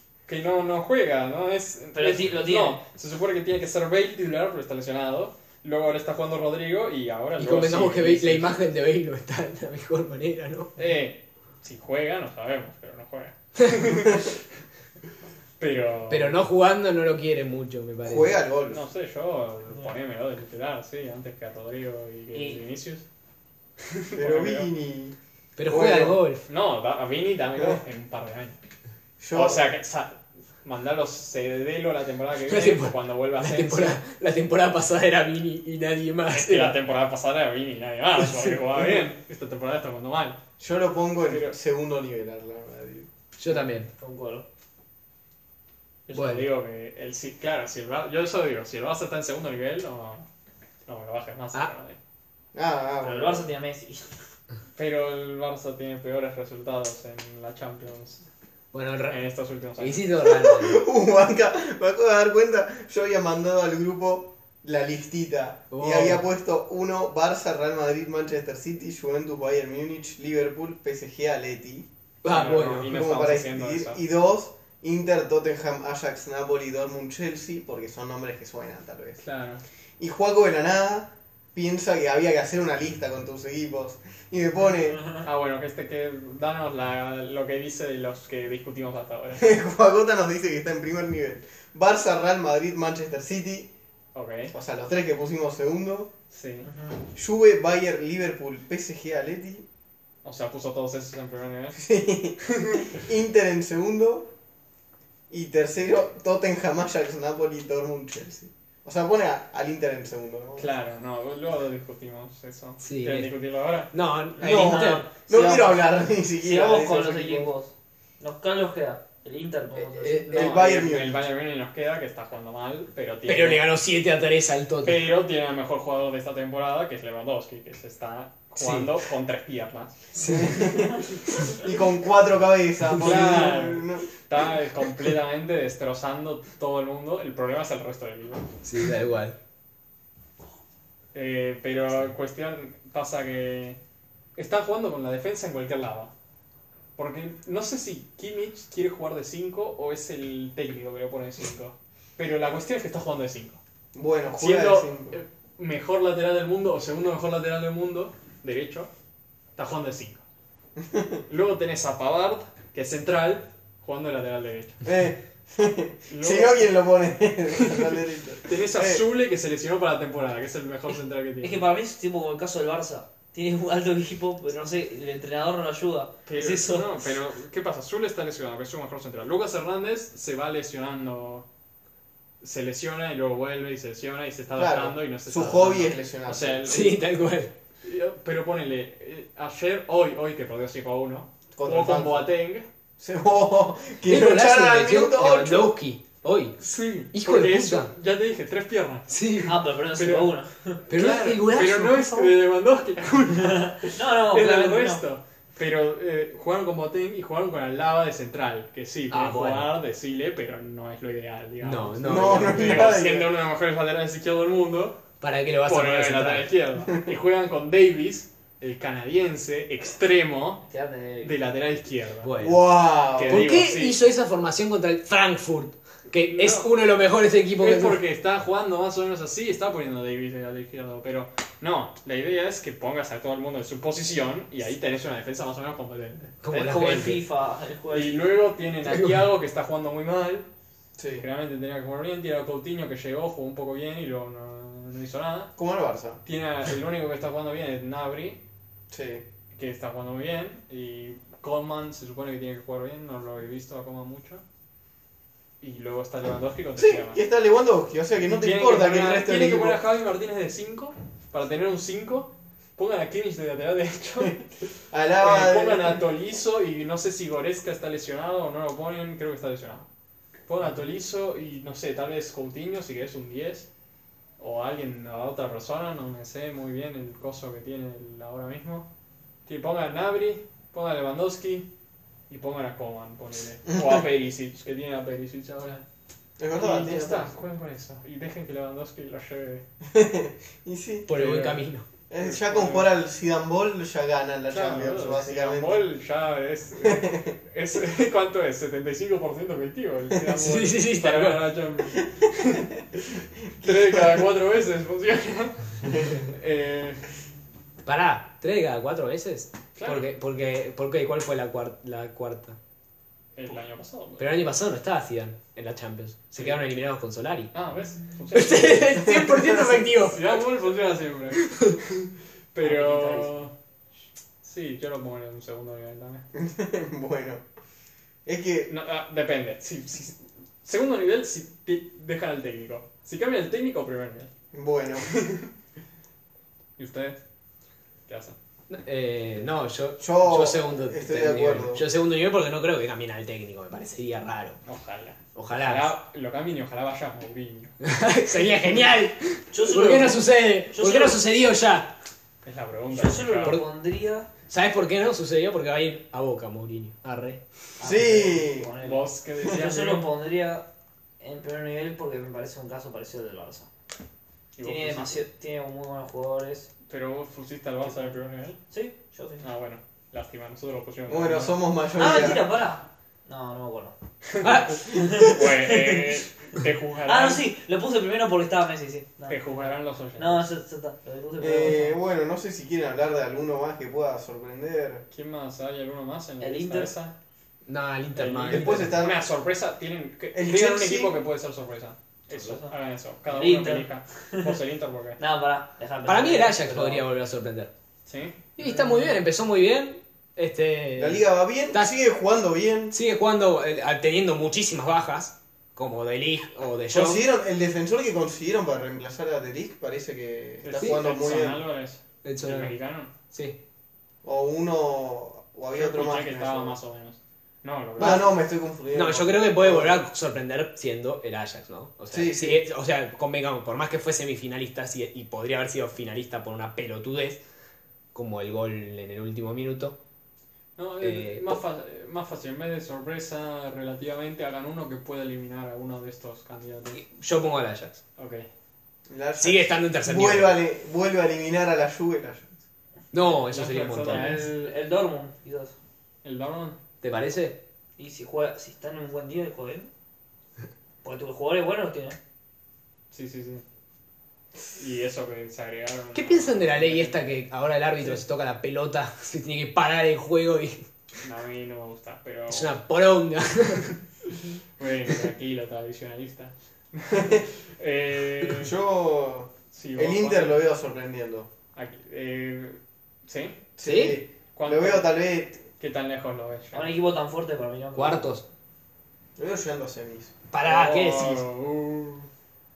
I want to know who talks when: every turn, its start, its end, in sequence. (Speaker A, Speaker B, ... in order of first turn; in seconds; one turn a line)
Speaker A: 0.3-8.5
Speaker B: 1.9-2.8
Speaker C: 7.4-10.7
Speaker A: 10.8-14.4
Speaker A: 15.6-16.4
Speaker C: 16.1-18.4
Speaker D: 18.0-18.8
Speaker A: 18.7-23.1
Speaker B: 22.3-22.6
Speaker A: 23.9-24.7
Speaker D: 24.1-26.2
Speaker C: 25.6-26.4
Speaker A: 26.5-28.6
Speaker D: 29.2-29.7
Speaker A: 29.3-34.0
Speaker C: 32.5-36.8
Speaker A: 36.3-40.4
Speaker C: 38.2-38.6
Speaker D: 40.6-43.1
Speaker A: 41.2-41.5
Speaker C: 43.4-43.9
Speaker B: 44.0-44.5
Speaker A: 46.1-50.3
Speaker C: 46.1-46.5
Speaker A: 50.9-52.0
Speaker D: 52.5-53.5
Speaker B: 53.0-54.1
Speaker A: 54.8-58.2
Speaker C: 58.7-59.2
Speaker A: 59.1-60.0
Speaker C: 59.8-60.8
Speaker D: 60.2-71.9
Speaker C: 65.7-66.3
Speaker C: 72.2-73.0
Speaker A: 72.2-74.0
Speaker D: 72.4-79.2
Speaker A: 79.2-79.6
Speaker D: 80.0-85.1
Speaker A: 85.2-89.4
Speaker D: 89.4-93.7
Speaker A: 94.1-94.5
Speaker D: 94.5-96.1
Speaker A: 96.3-96.7
Speaker B: 96.7-97.0
Speaker D: 97.1-99.7
Speaker A: 100.2-101.8
Speaker D: 101.7-104.3
Speaker A: 102.6-102.9
Speaker D: 105.3-110.7
Speaker A: 110.6-113.9
Speaker C: 112.8-113.3
Speaker C: 113.9-115.1
Speaker B: 114.4-120.7
Speaker D: 114.4-117.5
Speaker C: 119.8-120.3
Speaker D: 120.3-121.2
Speaker A: 120.3-123.7
Speaker C: 123.3-125.0
Speaker A: 124.8-130.1
Speaker C: 128.6-129.0
Speaker C: 130.2-130.7
Speaker D: 130.2-134.1
Speaker A: 133.0-138.6
Speaker C: 138.6-139.4
Speaker A: 141.1-143.8
Speaker A: 144.4-146.1
Speaker A: 147.0-153.6
Speaker D: 153.9-155.2
Speaker A: 154.3-158.9
Speaker A: 159.6-160.2
Speaker D: 160.8-161.2
Speaker A: 161.3-164.8
Speaker D: 164.8-169.0
Speaker A: 166.1-166.8
Speaker A: 167.6-167.9
Speaker A: 168.4-171.7
Speaker B: 171.4-177.1
Speaker A: 176.3-181.5
Speaker A: 182.4-187.0
Speaker D: 184.6-186.7
Speaker C: 186.7-187.5
Speaker A: 187.8-192.7
Speaker D: 191.6-192.3
Speaker D: 193.0-195.8
Speaker C: 194.1-196.6
Speaker A: 196.6-199.2
Speaker C: 197.1-197.9
Speaker C: 199.1-199.6
Speaker B: 199.4-200.8
Speaker A: 199.9-200.4
Speaker A: 200.9-215.0
Speaker C: 200.9-202.3
Speaker B: 203.4-205.0
Speaker C: 209.1-209.7
Speaker C: 211.6-213.0
Speaker D: 212.0-213.4
Speaker C: 215.2-216.5
Speaker A: 215.6-220.7
Speaker B: 220.7-221.3
Speaker A: 221.2-222.3
Speaker C: 222.2-228.0
Speaker D: 222.4-223.5
Speaker A: 223.2-224.0
Speaker A: 226.2-226.7
Speaker A: 227.6-236.4
Speaker C: 236.4-237.2
Speaker B: 236.5-238.2
Speaker A: 237.9-240.5
Speaker C: 238.9-239.2
Speaker D: 241.0-241.2
Speaker A: 241.2-245.5
Speaker D: 245.6-246.2
Speaker A: 246.2-248.4
Speaker D: 248.9-249.2
Speaker A: 249.5-254.4
Speaker A: 255.6-257.2
Speaker D: 256.8-259.8
Speaker A: 258.2-264.4
Speaker D: 264.9-266.0
Speaker A: 265.2-269.9
Speaker A: 270.5-273.7
Speaker A: 274.4-278.9
Speaker A: 279.5-281.7
Speaker A: 282.3-285.9
Speaker D: 283.7-284.1
Speaker D: 286.4-287.4
Speaker A: 286.5-289.6
Speaker D: 289.9-291.3
Speaker C: 291.1-291.9
Speaker A: 291.1-291.6
Speaker D: 292.1-295.9
Speaker A: 292.2-292.9
Speaker A: 294.5-307.0
Speaker D: 296.8-297.4
Speaker C: 300.3-301.5
Speaker D: 303.6-304.3
Speaker C: 307.9-312.6
Speaker A: 309.8-310.1
Speaker A: 313.4-314.4
Speaker C: 314.2-317.5
Speaker A: 316.4-316.7
Speaker A: 317.5-319.1
Speaker C: 318.3-320.4
Speaker D: 319.1-319.9
Speaker A: 320.0-323.5
Speaker C: 321.4-321.8
Speaker B: 322.6-323.4
Speaker A: 324.4-326.3
Speaker D: 326.4-327.4
Speaker D: 328.2-328.7
Speaker A: 328.7-334.3
Speaker D: 334.5-335.2
Speaker A: 336.8-337.2
Speaker A: 338.1-338.4
Speaker C: 338.7-344.6
Speaker D: 340.0-341.8
Speaker A: 344.6-347.8
Speaker C: 345.4-345.9
Speaker C: 347.8-352.0
Speaker B: 349.5-351.2
Speaker A: 352.4-353.6
Speaker B: 352.9-354.3
Speaker C: 354.5-357.4
Speaker B: 357.8-360.7
Speaker D: 357.8-358.7
Speaker A: 358.8-360.1
Speaker B: 361.2-363.7
Speaker A: 364.6-365.2
Speaker B: 364.6-366.7
Speaker A: 366.9-368.6
Speaker B: 367.9-368.1
Speaker B: 368.7-369.4
Speaker A: 369.4-371.6
Speaker D: 371.1-372.5
Speaker B: 371.9-374.0
Speaker A: 374.3-377.4
Speaker C: 374.4-374.9
Speaker B: 374.9-376.1
Speaker D: 374.9-375.2
Speaker B: 377.1-382.0
Speaker A: 379.3-380.5
Speaker D: 381.4-385.1
Speaker A: 385.1-387.1
Speaker B: 386.4-386.9
Speaker C: 387.7-389.1
Speaker A: 388.1-395.2
Speaker D: 388.4-389.2
Speaker D: 390.3-391.2
Speaker B: 392.3-392.8
Speaker B: 393.3-394.6
Speaker B: 395.2-397.1
Speaker C: 396.1-397.7
Speaker A: 398.1-398.4
Speaker C: 398.6-401.9
Speaker D: 401.0-403.0
Speaker C: 402.9-407.2
Speaker D: 406.9-411.6
Speaker A: 410.6-413.1
Speaker C: 412.2-412.8
Speaker C: 413.3-413.6
Speaker D: 414.2-416.8
Speaker A: 415.7-418.3
Speaker D: 418.0-420.0
Speaker C: 418.9-427.4
Speaker D: 422.1-422.6
Speaker C: 428.1-430.0
Speaker A: 430.8-437.0
Speaker C: 431.0-431.6
Speaker C: 436.9-438.0
Speaker A: 438.2-438.5
Speaker D: 439.1-442.6
Speaker C: 439.4-440.6
Speaker C: 443.1-444.5
Speaker A: 443.5-444.5
Speaker B: 444.0-445.7
Speaker A: 446.2-446.8
Speaker C: 447.0-447.6
Speaker B: 448.0-449.9
Speaker B: 451.0-452.2
Speaker A: 453.1-453.6
Speaker A: 454.8-457.2
Speaker C: 456.1-460.8
Speaker A: 461.2-462.8
Speaker C: 462.5-463.9
Speaker A: 464.8-468.7
Speaker D: 467.1-467.4
Speaker D: 468.4-471.5
Speaker A: 469.7-470.6
Speaker A: 471.8-473.6
Speaker D: 473.8-475.7
Speaker C: 473.8-474.2
Speaker A: 474.6-475.1
Speaker A: 475.8-476.9
Speaker B: 476.7-478.2
Speaker C: 477.9-478.4
Speaker D: 479.4-480.3
Speaker C: 480.5-481.4
Speaker A: 480.6-482.3